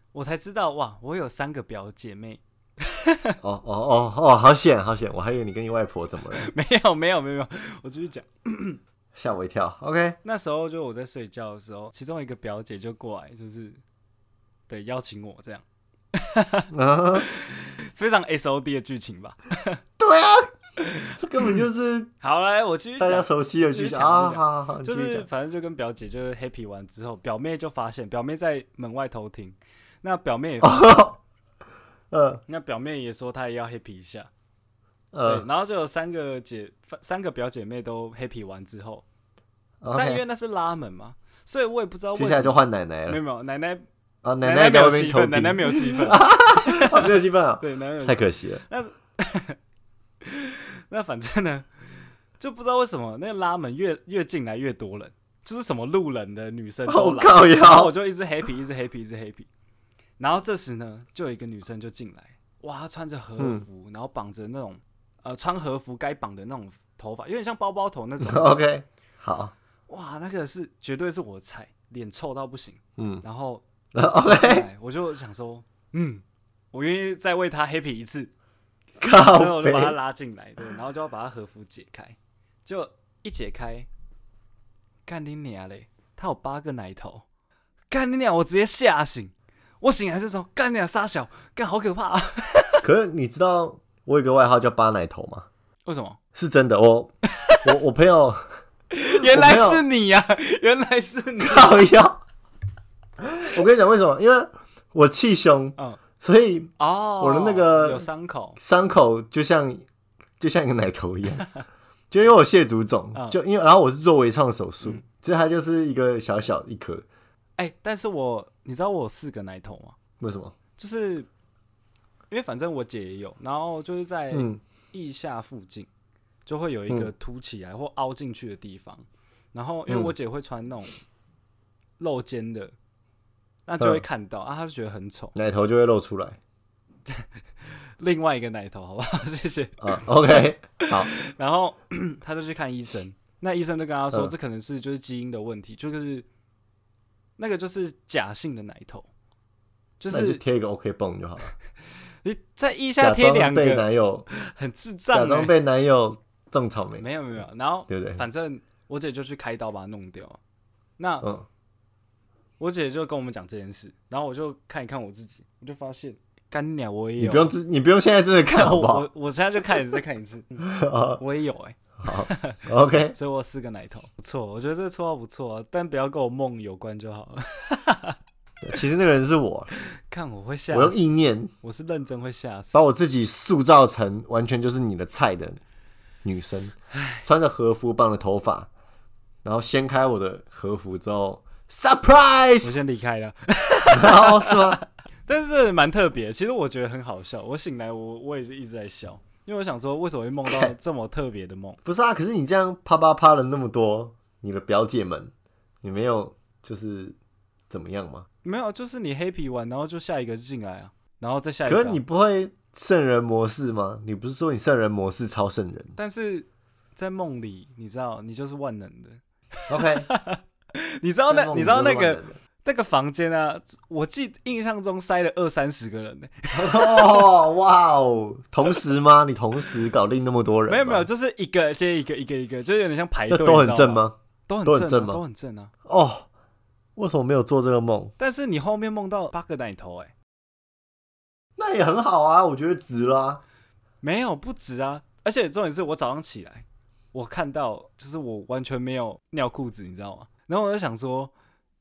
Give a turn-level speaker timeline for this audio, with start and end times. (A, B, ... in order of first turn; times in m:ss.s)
0:00.1-0:03.4 A
0:03.4-0:06.5 B
0:06.4-0:08.8 A
0:09.1-0:10.2 B
0:10.2-0:13.8 A
0:14.7-0:16.7 A
0:16.7-0:17.3 B
0:17.3-0:19.8 A
0:20.0-0:20.5 B
0:20.8-0:21.6 A
0:21.2-0:22.1 B
0:22.2-0:31.2 A
0:23.0-0:25.3 B
0:30.6-0:31.2 B
0:32.1-0:32.4 B
0:32.5-0:34.3 A
0:35.1-0:35.5 B
0:35.2-0:39.0 A
0:39.8-0:40.2 B
0:40.0-0:43.8 A
0:42.2-0:43.2 B
0:44.2-0:48.6 B
0:44.4-0:49.6 A
0:50.2-0:51.7 A
0:52.4-0:59.5 A
0:56.9-0:58.0 B
1:00.2-1:08.6 A
1:03.4-1:03.6 B
1:08.2-1:09.5 B
1:09.9-1:18.3 A
1:13.0-1:13.2 B
1:13.9-1:14.7 B
1:19.0-1:20.0 B
1:19.1-1:23.9 A
1:25.1-1:27.2 A
1:27.9-1:32.8 A
1:32.8-1:35.5 B
1:35.9-1:36.2 A
1:36.4-1:37.1 B
1:37.5-1:37.7 A
1:37.6-1:38.6 B
1:38.9-1:41.9 A
1:39.2-1:39.8 B
1:41.4-1:42.2 B
1:43.2-1:48.1 B
1:46.8-1:48.6 A
1:48.6-1:49.8 B
1:50.4-1:51.5 B
1:52.1-1:57.0 B
1:53.1-1:53.4 A
1:57.6-2:00.0 A
2:00.2-2:00.6 B
2:00.8-2:01.3 A
2:02.3-2:05.9 A
2:04.3-2:04.6 B
2:06.5-2:11.0 A
2:09.9-2:10.1 B
2:12.0-2:12.7 A
2:13.7-2:15.4 A
2:13.8-2:14.0 B
2:15.4-2:16.4 B
2:18.0-2:26.3 A
2:19.8-2:21.1 B
2:27.4-2:29.1 A
2:30.0-2:30.4 A
2:30.1-2:31.5 B
2:32.2-2:35.6 A
2:33.0-2:34.3 B
2:35.1-2:37.1 B
2:37.0-2:40.4 A
2:37.9-2:38.2 B
2:41.0-2:41.3 A
2:42.6-2:47.5 A
2:47.2-2:49.1 B
2:48.5-2:50.7 A
2:50.6-2:51.2 B
2:51.2-2:52.6 A
2:52.0-2:53.2 B
2:53.1-2:58.2 A
2:58.6-2:59.7 B
2:59.8-3:01.1 A
3:00.7-3:01.5 B
3:01.6-3:02.8 A
3:02.7-3:05.6 B
3:06.2-3:08.7 B
3:07.0-3:07.2 A
3:09.4-3:12.8 B
3:12.6-3:21.8 A
3:13.9-3:14.8 B
3:20.5-3:20.7 B
3:21.8-3:25.3 B
3:25.8-3:27.2 B
3:27.7-3:28.3 B
3:28.4-3:32.0 A
3:31.7-3:36.0 B
3:36.0-3:39.2 A
3:39.7-3:40.1 B
3:40.1-3:47.3 A
3:41.3-3:42.4 B
3:46.5-3:51.1 B
3:50.7-3:55.7 A
3:53.3-3:55.2 B
3:55.9-3:56.3 B
3:57.0-3:58.1 B
3:58.2-4:00.1 A
4:01.6-4:03.4 B
4:04.0-4:11.3 A